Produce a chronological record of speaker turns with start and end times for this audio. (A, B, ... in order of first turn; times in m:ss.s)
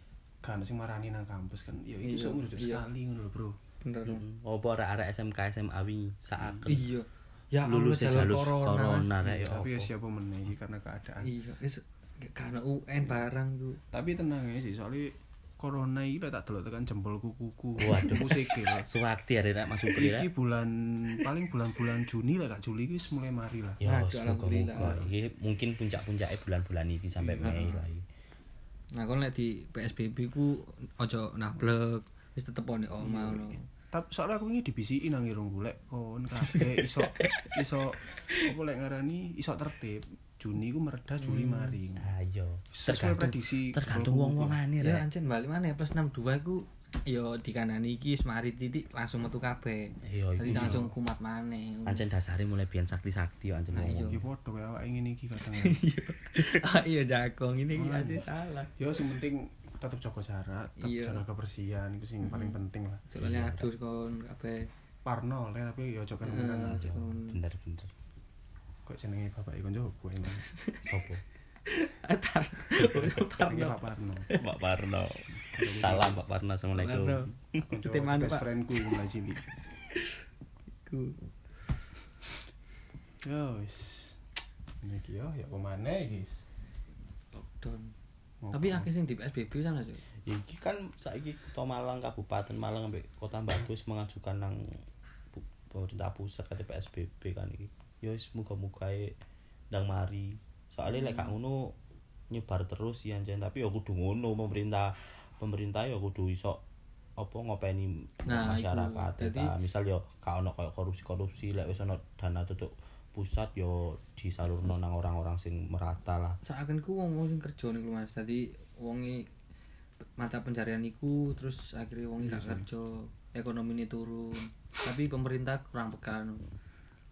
0:00.4-0:03.6 A
0:02.0-0:02.8 B
0:03.8-0:04.2 B
0:04.0-0:06.8 C
0:06.4-0:06.7 A
0:06.7-0:09.1 B
0:07.6-0:09.9 C
0:09.2-0:11.3 A
0:11.2-0:13.8 B
0:13.9-0:18.9 A
0:17.8-0:20.3 C
0:20.0-0:23.8 A
0:23.8-0:28.0 C
0:23.8-0:25.1 B
0:27.2-0:27.6 A
0:27.4-0:27.8 B
0:29.0-0:33.6 B
0:33.0-0:42.1 A
0:37.2-0:37.5 C
0:41.2-0:41.8 B
0:42.0-0:45.0 C
0:42.7-0:44.6 A
0:44.8-0:52.0 B
0:50.1-0:50.8 C
0:50.4-0:50.9 A
0:51.9-0:54.2 C
0:53.7-0:54.2 B
0:54.1-0:55.8 A
0:55.5-0:58.7 B
0:57.7-1:03.0 A
1:00.8-1:01.2 B
1:02.2-1:02.6 B
1:03.1-1:04.7 B
1:03.2-1:03.7 C
1:05.0-1:06.8 A
1:06.2-1:07.4 B
1:06.7-1:07.9 C
1:08.9-1:10.5 A
1:10.4-1:10.9 B
1:10.8-1:11.2 C
1:11.7-1:14.4 B
1:12.8-1:13.3 C
1:13.2-1:14.3 A
1:14.4-1:17.6 C
1:15.5-1:16.2 A
1:16.8-1:18.5 B
1:17.7-1:19.4 A
1:20.9-1:21.2 B
1:23.2-1:24.2 A
1:24.8-1:26.4 A
1:27.3-1:27.9 B
1:28.4-1:28.9 A
1:28.5-1:30.0 B
1:30.2-1:34.6 C
1:35.3-1:39.2 C
1:39.7-1:41.8 C
1:40.9-1:41.3 B
1:42.3-1:46.6 C
1:47.2-1:56.4 C
1:48.2-1:49.5 B
1:56.4-1:59.3 B
2:00.2-2:06.4 B
2:02.2-2:02.7 A